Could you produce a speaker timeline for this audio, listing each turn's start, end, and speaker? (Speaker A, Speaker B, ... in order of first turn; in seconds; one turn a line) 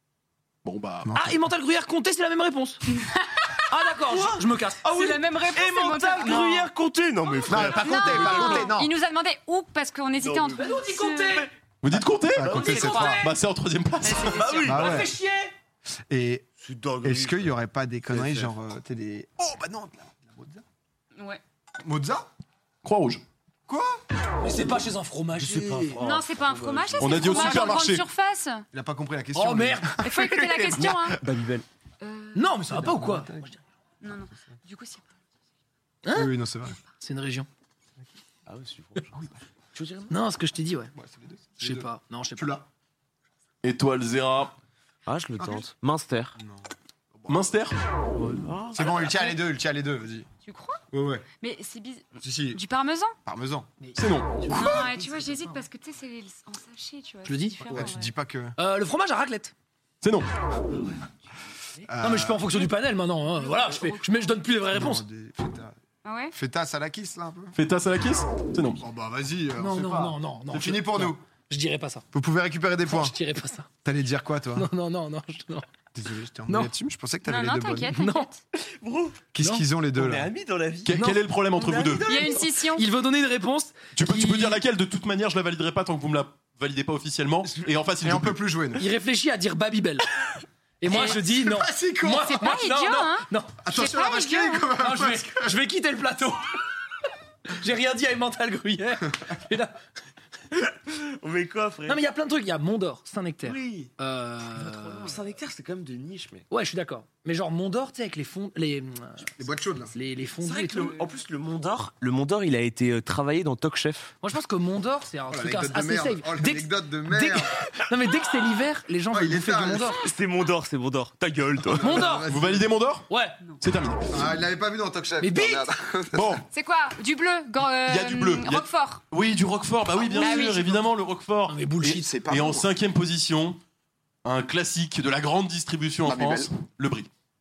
Speaker A: 0.7-1.1
Speaker B: 1.0-1.4
Speaker C: 1.1-2.9
Speaker D: 2.9-3.7
Speaker C: 3.7-5.0
Speaker E: 4.0-8.7
Speaker D: 4.9-6.7
Speaker C: 6.1-6.5
Speaker B: 7.5-8.9
Speaker D: 7.5-11.4
Speaker E: 10.2-10.7
Speaker C: 10.6-11.5
Speaker A: 11.8-14.5
Speaker B: 12.3-13.3
Speaker E: 12.4-13.1
Speaker D: 12.5-13.3
Speaker C: 12.7-13.2
Speaker D: 14.0-14.9
Speaker E: 14.4-15.1
Speaker C: 14.4-15.5
Speaker B: 14.6-15.1
Speaker B: 16.1-16.5
Speaker E: 16.6-17.5
Speaker B: 17.0-20.6
Speaker E: 18.1-18.5
Speaker D: 21.2-21.4
Speaker B: 21.8-22.3
Speaker A: 22.8-23.2
Speaker B: 23.7-24.0
Speaker C: 24.4-26.1
Speaker E: 25.4-27.3
Speaker D: 26.0-28.6
Speaker A: 27.0-28.1
Speaker B: 27.2-27.8
Speaker B: 28.7-31.0
Speaker C: 29.4-30.0
Speaker D: 30.0-31.2
Speaker E: 30.7-31.7
Speaker D: 32.0-32.6
Speaker C: 32.3-33.5
Speaker B: 32.7-33.5
Speaker D: 34.0-35.1
Speaker C: 36.0-36.3
Speaker B: 36.1-36.8
Speaker C: 37.0-37.5
Speaker E: 38.5-39.1
Speaker E: 39.7-40.1
Speaker C: 40.1-40.9
Speaker B: 40.9-42.7
Speaker C: 41.6-42.5
Speaker A: 43.6-44.5
Speaker E: 45.1-46.4
Speaker B: 46.4-47.4
Speaker A: 47.3-47.8
Speaker E: 48.2-49.3
Speaker B: 48.7-50.3
Speaker D: 50.5-50.8
Speaker B: 50.9-51.3
Speaker D: 51.4-53.1
Speaker B: 52.2-52.6
Speaker B: 53.3-53.7
Speaker C: 53.8-55.6
Speaker A: 54.0-54.5
Speaker D: 54.5-58.1
Speaker B: 54.5-54.8
Speaker C: 57.2-57.9
Speaker B: 57.7-58.6
Speaker C: 58.6-59.5
Speaker A: 60.0-60.3
Speaker B: 61.9-62.5
Speaker C: 62.0-65.0
Speaker D: 63.4-64.3
Speaker B: 64.7-65.8
Speaker D: 66.0-66.3
Speaker B: 66.3-67.5
Speaker A: 67.5-68.8
Speaker B: 68.8-71.2
Speaker C: 69.6-72.1
Speaker B: 72.1-73.2
Speaker C: 72.9-73.7
Speaker B: 73.8-74.7
Speaker C: 74.6-75.7
Speaker B: 75.9-77.9
Speaker C: 76.5-76.7
Speaker D: 77.3-78.4
Speaker C: 77.9-78.3
Speaker E: 78.8-79.2
Speaker B: 79.3-80.3
Speaker C: 79.4-79.7
Speaker E: 79.9-82.4
Speaker A: 80.8-82.1
Speaker C: 80.9-81.2
Speaker D: 82.0-82.9
Speaker C: 82.2-84.6
Speaker A: 84.0-88.4
Speaker B: 88.0-88.8
Speaker C: 88.8-90.1
Speaker C: 90.8-93.6
Speaker D: 90.9-91.2
Speaker B: 90.9-92.4
Speaker D: 92.2-94.7
Speaker B: 93.6-95.6
Speaker C: 94.7-96.6
Speaker C: 97.5-99.8
Speaker E: 100.7-102.0
Speaker C: 101.9-105.2
Speaker E: 103.5-103.9
Speaker E: 104.5-106.5
Speaker C: 106.5-109.3
Speaker B: 109.4-110.0
Speaker C: 109.9-111.0
Speaker E: 110.4-114.2
Speaker C: 114.2-120.0
Speaker B: 115.3-117.6
Speaker B: 119.1-119.9
Speaker E: 120.0-122.0
Speaker B: 121.6-122.7
Speaker C: 121.8-122.3
Speaker A: 122.2-123.1
Speaker C: 123.1-123.4
Speaker A: 123.6-124.2
Speaker B: 124.1-126.4
Speaker C: 125.2-125.7
Speaker A: 126.1-126.4
Speaker D: 126.5-129.0
Speaker A: 127.9-133.6
Speaker D: 130.0-130.8
Speaker C: 131.5-132.1
Speaker B: 131.9-132.7
Speaker A: 134.2-137.1
Speaker B: 136.1-136.5